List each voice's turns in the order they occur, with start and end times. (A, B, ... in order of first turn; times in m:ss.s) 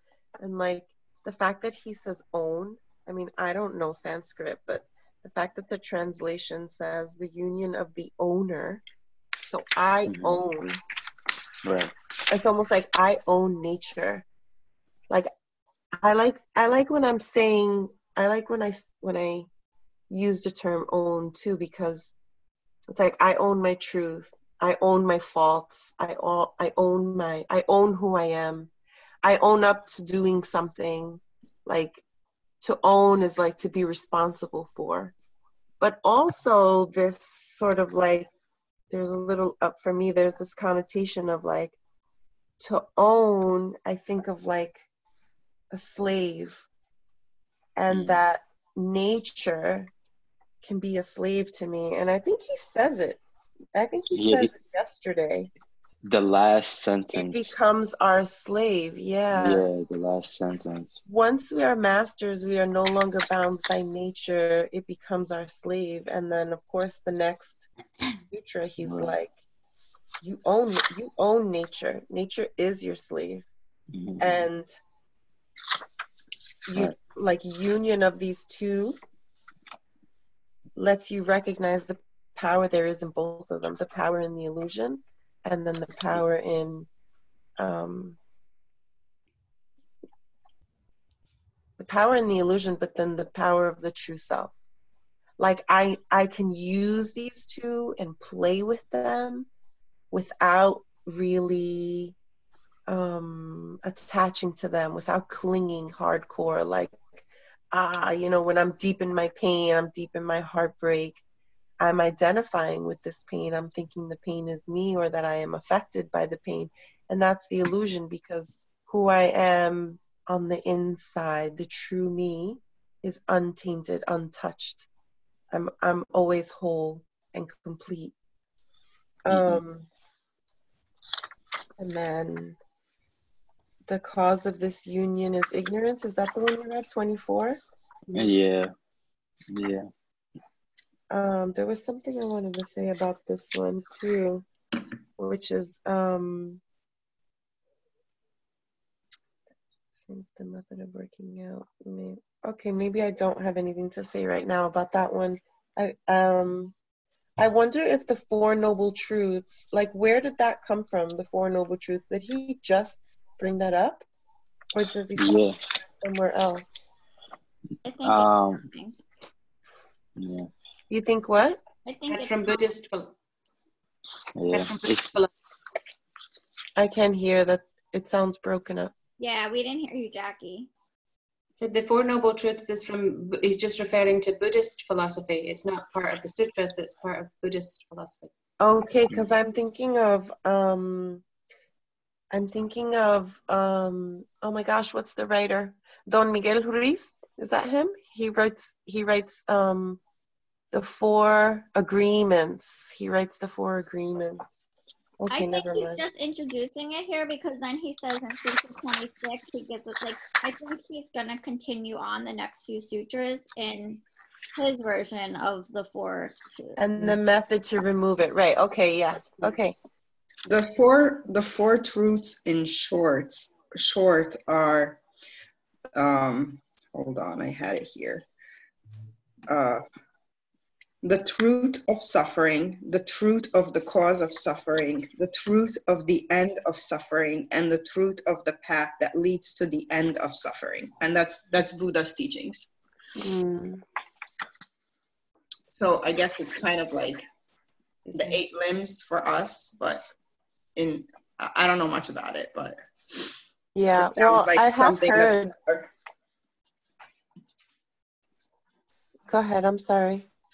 0:00.4-0:08.8 A
0:09.4-0:10.8 A
0:10.1-0:10.4 B
0:11.6-0:11.9 B
0:12.3-0:14.2 A
0:16.0-0:19.5 A
0:20.1-0:22.1 A
0:22.9-0:28.7 A
0:29.2-0:32.0 A
0:32.6-0:35.1 A
0:35.8-0:38.3 A
0:38.9-0:41.8 A
0:42.6-0:44.8 A
0:45.7-0:46.7 A
0:47.8-0:49.9 A
0:47.9-0:48.2 B
0:50.6-0:53.2 A
0:53.7-0:55.5 A
0:54.1-0:54.5 B
0:56.0-0:57.5 B
0:57.1-0:59.6 A
0:59.3-1:01.0 B
1:01.0-1:07.6 A
1:08.3-1:09.3 A
1:08.8-1:09.2 B
1:10.2-1:13.4 A
1:13.9-1:14.4 B
1:14.2-1:14.7 A
1:16.7-1:19.0 A
1:20.8-1:26.9 A
1:27.6-1:28.2 A
1:31.8-1:34.5 A
1:35.4-1:39.5 A
1:40.1-1:42.1 A
1:42.9-1:47.0 A
1:47.7-1:51.2 A
1:51.8-2:04.9 A
2:05.5-2:08.1 A
2:09.2-2:09.9 A
2:09.3-2:09.6 B
2:11.8-2:12.6 A
2:13.9-2:17.6 A
2:18.1-2:18.7 B
2:19.5-2:19.9 B
2:21.1-2:24.4 A
2:25.2-2:26.6 A
2:30.0-2:36.7 A
2:37.4-2:44.0 A
2:44.7-2:45.4 A
2:45.2-2:45.5 B
2:46.0-2:46.7 A
2:47.8-2:49.0 C
2:48.0-2:48.7 B
2:50.2-2:50.5 B
2:50.9-2:51.6 A
2:51.8-2:52.6 C
2:52.1-2:53.1 D
2:54.4-2:55.2 B
2:54.5-2:55.3 D
2:56.8-2:58.9 A
2:59.2-3:00.7 C
3:01.6-3:08.3 D
3:08.6-3:11.2 A
3:12.3-3:20.0 A
3:20.7-3:24.6 A
3:25.2-3:26.0 A
3:25.3-3:34.0 C
3:34.6-3:37.2 C
3:36.8-3:39.8 A
3:40.5-3:45.0 E
3:45.9-3:48.2 E
3:49.5-3:49.8 E
3:51.0-4:02.7 E
4:03.2-4:03.8 A
4:05.7-4:07.2 E
4:08.0-4:08.4 D
4:08.1-4:10.0 E
4:10.8-4:13.3 E
4:13.7-4:15.5 A
4:14.0-4:15.9 E
4:19.3-4:20.2 A